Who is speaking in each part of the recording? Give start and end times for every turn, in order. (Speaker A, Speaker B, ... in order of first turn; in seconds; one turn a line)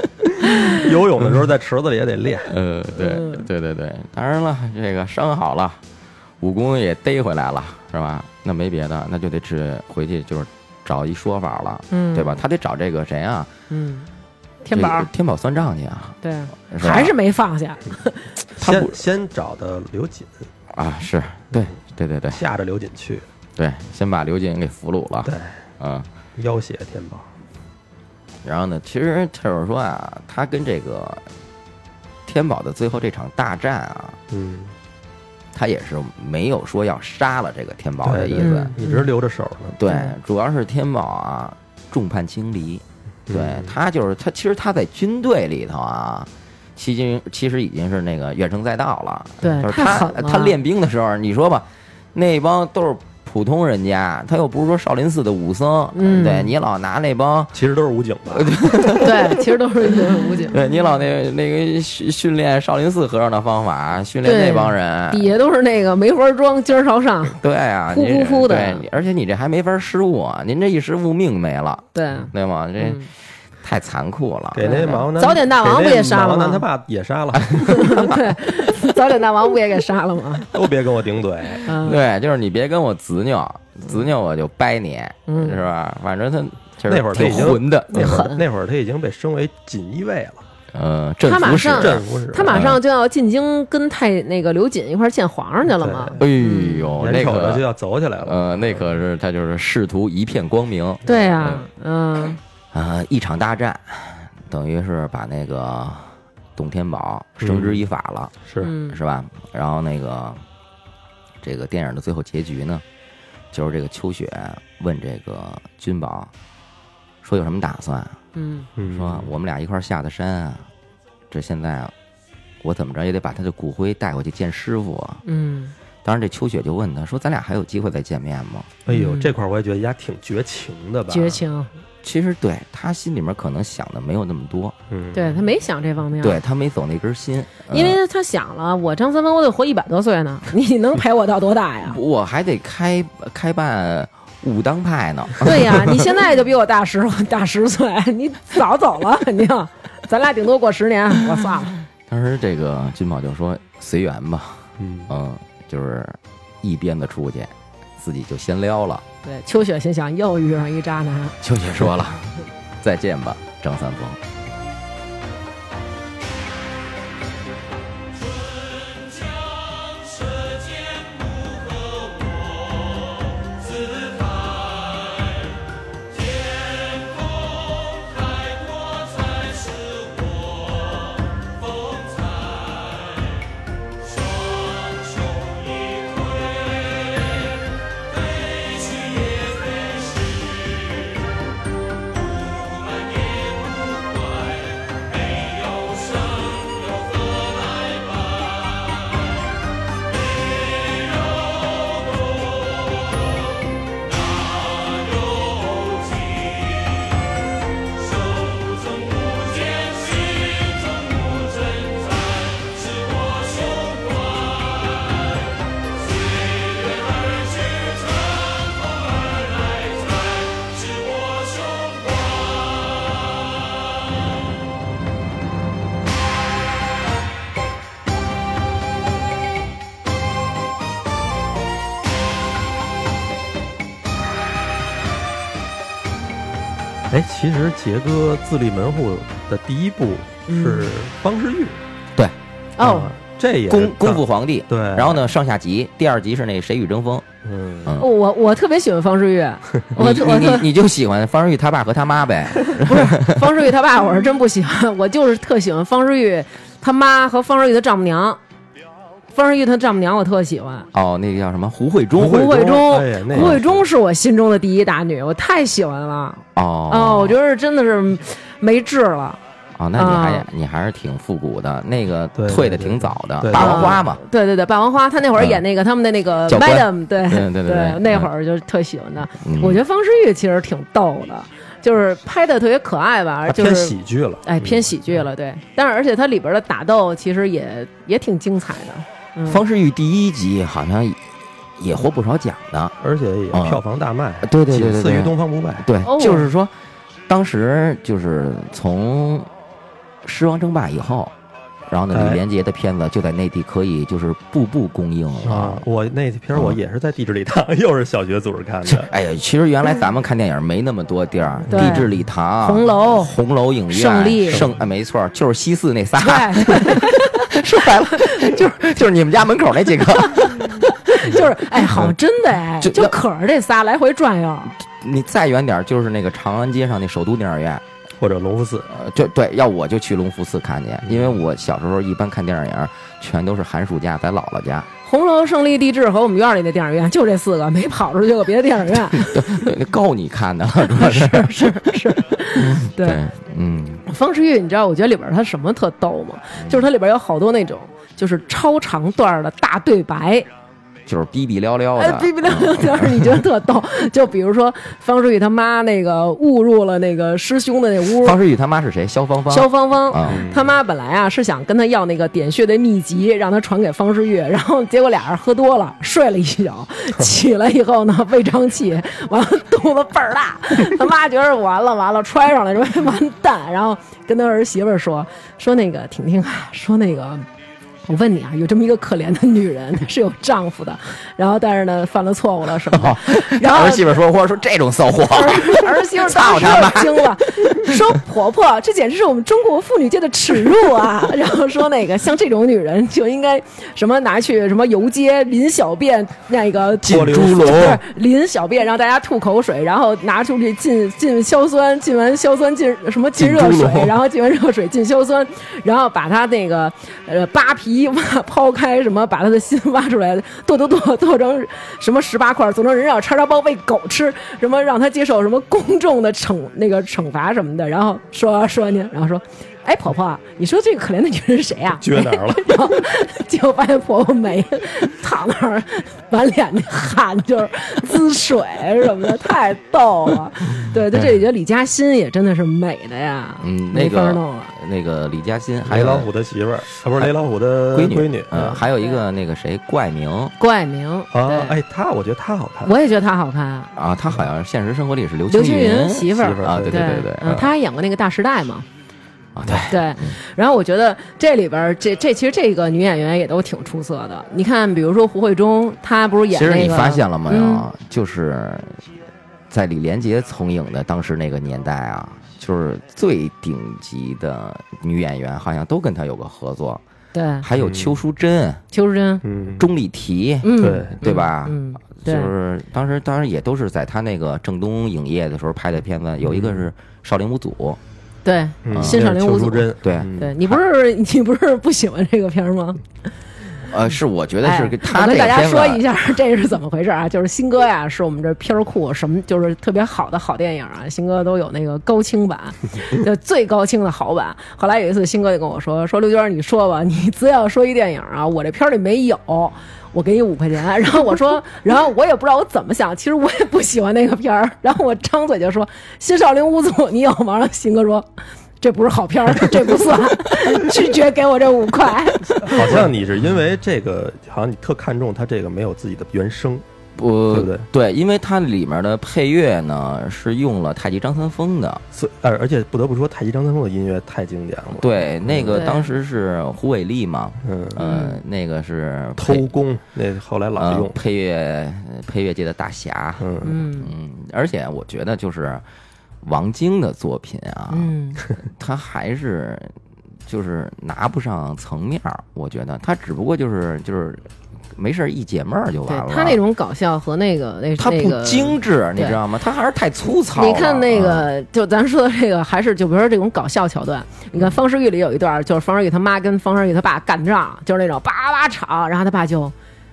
Speaker A: 0.4-0.8
Speaker B: 0.7-2.5
Speaker C: 2.5-5.8
Speaker A: 3.0-3.4
Speaker C: 6.4-13.5
Speaker A: 11.9-12.4
Speaker A: 13.7-14.1
Speaker A: 14.6-15.1
Speaker C: 14.7-17.1
Speaker A: 16.2-18.3
Speaker B: 18.6-20.3
Speaker C: 18.6-19.0
Speaker C: 20.7-22.4
Speaker B: 22.3-23.2
Speaker C: 23.6-26.1
Speaker B: 25.2-25.6
Speaker B: 26.4-27.3
Speaker C: 28.4-31.3
Speaker C: 32.2-34.2
Speaker B: 34.3-34.7
Speaker C: 35.5-38.7
Speaker B: 38.0-39.8
Speaker A: 38.4-39.1
Speaker C: 39.8-57.6
Speaker A: 39.9-40.1
Speaker B: 43.3-43.7
Speaker A: 49.4-50.6
Speaker A: 55.9-56.5
Speaker B: 57.5-59.1
Speaker C: 58.3-59.1
Speaker A: 58.9-60.6
Speaker C: 60.5-65.3
Speaker A: 64.2-67.4
Speaker C: 67.4-73.0
Speaker A: 67.9-68.8
Speaker A: 71.9-73.1
Speaker C: 73.6-74.9
Speaker B: 74.5-78.2
Speaker A: 74.6-76.7
Speaker A: 77.7-80.5
Speaker B: 80.5-81.8
Speaker A: 81.6-82.0
Speaker C: 81.8-88.1
Speaker A: 85.3-85.6
Speaker B: 86.9-90.4
Speaker A: 87.9-88.4
Speaker C: 90.7-92.8
Speaker A: 91.2-96.9
Speaker B: 91.7-92.7
Speaker B: 95.7-96.2
Speaker C: 96.2-97.6
Speaker B: 97.0-98.8
Speaker C: 98.2-101.7
Speaker A: 101.0-102.4
Speaker C: 102.7-108.3
Speaker B: 107.4-107.8
Speaker B: 108.4-108.7
Speaker A: 108.6-109.0
Speaker C: 108.9-110.4
Speaker C: 111.4-112.8
Speaker C: 113.5-116.3
Speaker C: 117.2-118.2
Speaker A: 118.3-118.7
Speaker B: 118.8-119.3
Speaker C: 118.9-120.7
Speaker C: 121.3-121.9
Speaker C: 122.6-125.2
Speaker A: 125.2-125.7
Speaker C: 126.0-128.7
Speaker B: 128.8-131.4
Speaker A: 128.9-129.3
Speaker A: 131.1-131.7
Speaker C: 132.0-134.7
Speaker B: 134.9-135.4
Speaker A: 135.1-136.4
Speaker C: 136.2-138.0
Speaker A: 137.7-142.0
Speaker C: 141.8-146.1
Speaker A: 145.4-151.7
Speaker C: 152.1-159.0
Speaker B: 154.8-155.1
Speaker A: 159.2-161.4
Speaker C: 161.4-164.2
Speaker B: 237.1-241.8
Speaker A: 240.5-240.9
Speaker A: 242.8-243.1
Speaker B: 242.8-245.2
Speaker C: 243.7-247.2
Speaker B: 247.4-247.9
Speaker A: 248.0-250.7
Speaker C: 249.9-253.5
Speaker A: 252.8-258.4
Speaker A: 259.3-260.9
Speaker C: 260.9-262.6
Speaker B: 262.1-263.8
Speaker A: 262.3-269.4
Speaker C: 263.3-263.6
Speaker C: 266.5-267.4
Speaker C: 269.8-274.2
Speaker A: 269.9-270.5
Speaker B: 272.3-274.0
Speaker A: 273.5-289.6
Speaker C: 275.4-275.6
Speaker C: 276.5-278.3
Speaker C: 279.4-279.8
Speaker B: 283.5-284.9
Speaker C: 289.4-292.9
Speaker B: 293.0-295.9
Speaker C: 293.5-293.8
Speaker C: 294.4-296.7
Speaker A: 296.0-296.5
Speaker C: 297.3-299.5
Speaker C: 300.2-301.3
Speaker C: 301.9-305.8
Speaker B: 302.1-302.4
Speaker B: 305.4-309.1
Speaker C: 308.9-320.7
Speaker B: 311.7-312.0
Speaker A: 311.7-312.1
Speaker A: 312.6-313.3
Speaker A: 313.9-314.7
Speaker A: 316.2-318.7
Speaker A: 320.3-324.7
Speaker C: 321.9-322.1
Speaker C: 322.8-323.2
Speaker C: 324.8-327.8
Speaker B: 328.2-328.9
Speaker C: 328.9-334.9
Speaker A: 335.0-339.4
Speaker C: 339.1-344.0
Speaker A: 340.9-343.2
Speaker A: 344.1-350.5
Speaker C: 351.1-353.4
Speaker A: 352.0-358.4
Speaker C: 358.2-360.5
Speaker A: 359.5-377.4
Speaker B: 360.3-360.7
Speaker A: 378.1-384.2
Speaker C: 382.9-388.0
Speaker A: 385.3-434.7
Speaker C: 397.0-398.0
Speaker B: 397.0-397.9
Speaker C: 403.4-404.1
Speaker B: 422.0-422.9
Speaker C: 433.6-436.3
Speaker B: 435.8-438.8
Speaker C: 437.9-440.5
Speaker A: 440.6-441.8
Speaker B: 441.3-442.9
Speaker A: 442.8-443.9
Speaker C: 443.9-447.7
Speaker A: 445.5-448.9
Speaker B: 446.3-447.1
Speaker C: 449.6-450.3
Speaker A: 449.9-457.8
Speaker C: 456.5-459.0
Speaker C: 459.7-467.0
Speaker A: 467.3-467.6
Speaker C: 467.6-468.8
Speaker B: 467.8-468.2
Speaker A: 468.9-469.4
Speaker B: 469.4-469.9
Speaker C: 469.8-478.0
Speaker A: 470.6-472.5
Speaker B: 470.8-471.2
Speaker B: 476.4-476.8
Speaker A: 478.4-483.0
Speaker B: 478.8-480.6
Speaker C: 480.0-480.8
Speaker C: 483.9-486.0
Speaker A: 484.6-508.3
Speaker A: 508.8-512.9
Speaker B: 512.6-516.8
Speaker C: 517.1-522.0
Speaker B: 517.5-517.9
Speaker B: 522.1-525.8
Speaker C: 525.0-529.7
Speaker A: 525.7-526.1
Speaker B: 527.6-528.0
Speaker A: 528.0-528.4
Speaker B: 529.4-531.1
Speaker C: 530.8-535.8
Speaker B: 533.4-533.8
Speaker A: 533.6-534.1
Speaker C: 536.4-539.9
Speaker A: 537.9-538.4
Speaker C: 540.5-546.6
Speaker A: 546.1-549.4
Speaker C: 548.0-551.5
Speaker A: 550.5-559.7